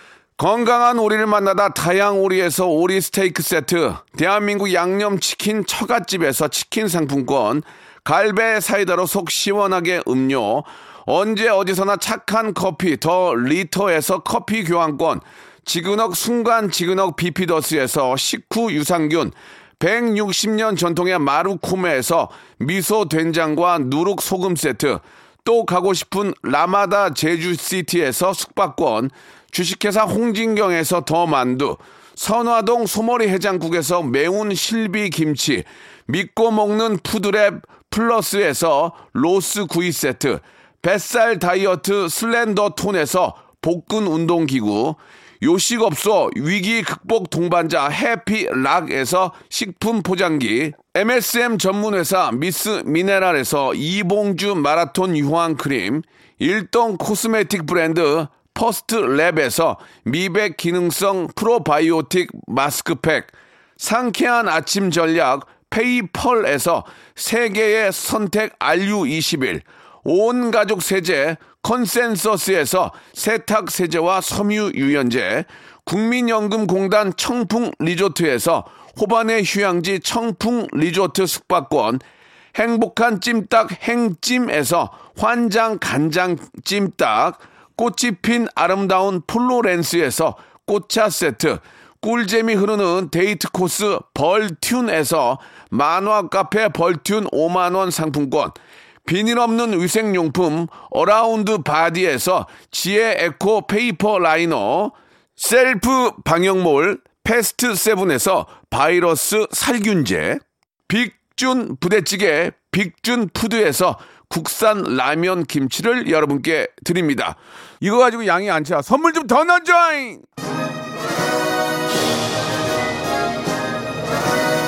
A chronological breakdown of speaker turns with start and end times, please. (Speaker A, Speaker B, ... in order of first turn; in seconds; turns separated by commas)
Speaker A: 0.4-82.0, Speaker A: 82.5-120.2